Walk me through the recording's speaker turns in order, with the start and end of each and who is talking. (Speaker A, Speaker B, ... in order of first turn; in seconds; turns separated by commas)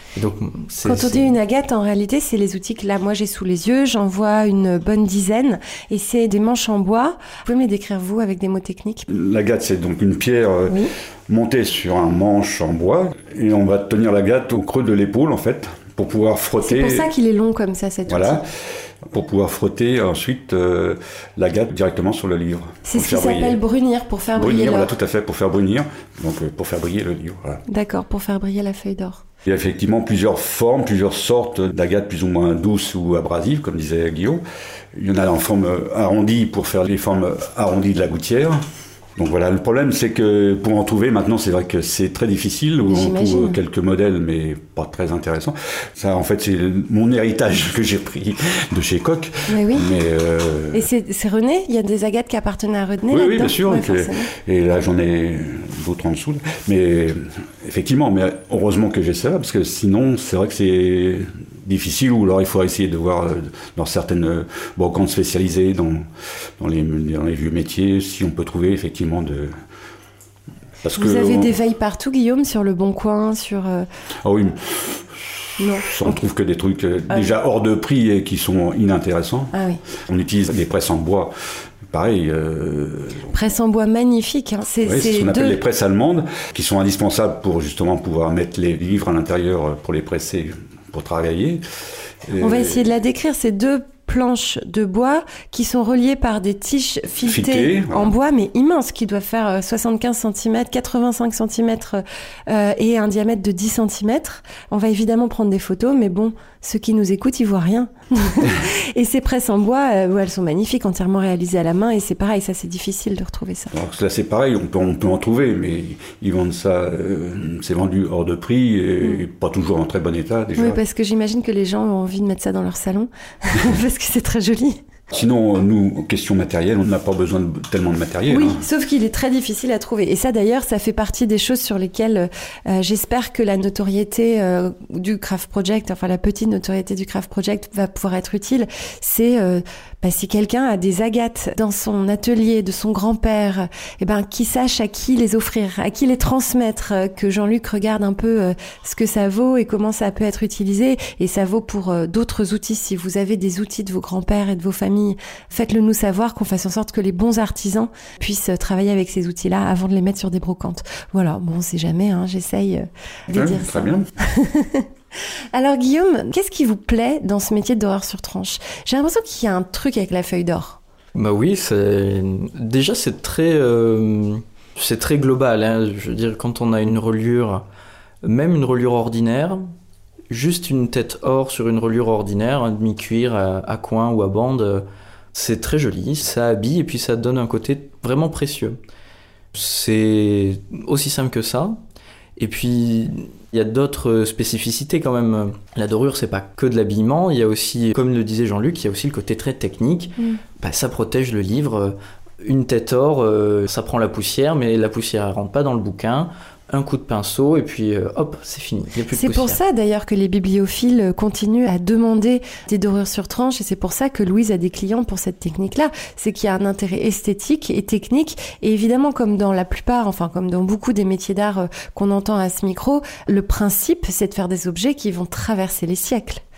Speaker A: 0.1-1.4, Speaker B: 0.8-9.1, Speaker C: 9.1-17.1, Speaker B: 16.6-18.4, Speaker C: 18.1-23.6, Speaker B: 22.9-24.9, Speaker C: 24.4-27.6, Speaker B: 27.7-29.2, Speaker C: 29.4-34.4, Speaker C: 34.9-38.6, Speaker C: 39.2-50.9, Speaker B: 42.9-43.6, Speaker B: 49.5-49.9, Speaker B: 50.7-54.3, Speaker C: 53.1-69.5, Speaker C: 70.8-71.5, Speaker B: 71.0-73.9, Speaker C: 74.2-79.5, Speaker B: 75.6-76.2, Speaker B: 79.5-79.8, Speaker C: 80.1-81.3, Speaker C: 81.9-83.3, Speaker B: 83.3-85.6, Speaker C: 84.8-91.6, Speaker C: 92.3-92.9, Speaker B: 92.4-113.7, Speaker C: 97.2-98.1, Speaker C: 113.7-120.8, Speaker B: 120.6-124.8, Speaker C: 125.1-128.6, Speaker B: 128.3-164.9, Speaker C: 163.3-164.1, Speaker B: 165.5-170.8, Speaker A: 171.2-177.7, Speaker A: 178.2-179.7, Speaker A: 180.3-188.8, Speaker A: 189.5-191.8, Speaker A: 192.4-209.6, Speaker B: 209.1-226.4